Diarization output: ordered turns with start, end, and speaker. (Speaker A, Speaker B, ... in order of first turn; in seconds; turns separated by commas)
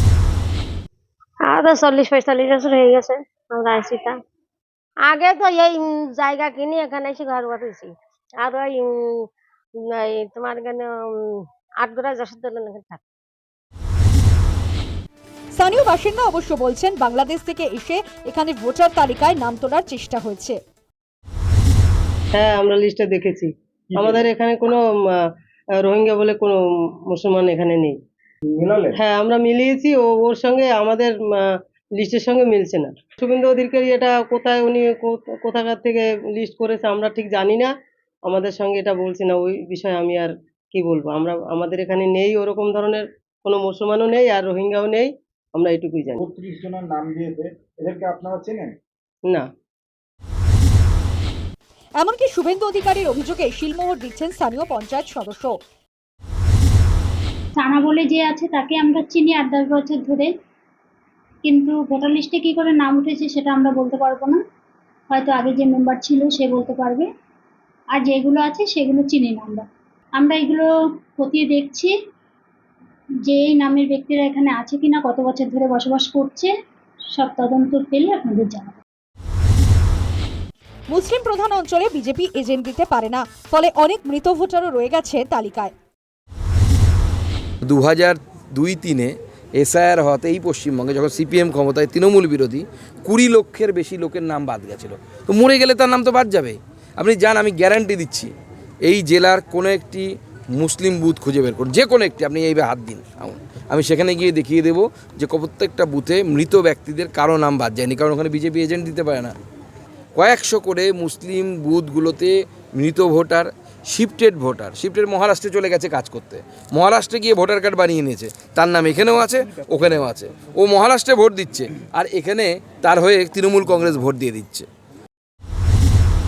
Speaker A: 1.5-4.2, Speaker A: 5.1-9.3, Speaker A: 9.8-13.0, Speaker B: 15.6-20.6, Speaker C: 22.4-25.2, Speaker D: 23.9-24.3, Speaker C: 25.8-26.6, Speaker C: 27.1-27.9, Speaker D: 28.6-29.0, Speaker C: 29.0-37.7, Speaker C: 38.3-46.2, Speaker D: 46.2-48.8, Speaker B: 52.0-55.5, Speaker E: 57.6-60.3, Speaker E: 61.5-64.4, Speaker E: 65.1-67.1, Speaker E: 68.0-69.7, Speaker E: 70.2-71.9, Speaker E: 73.3-76.5, Speaker E: 77.2-78.8, Speaker B: 80.9-85.7, Speaker F: 87.6-98.3, Speaker F: 98.8-109.3, Speaker F: 110.2-124.7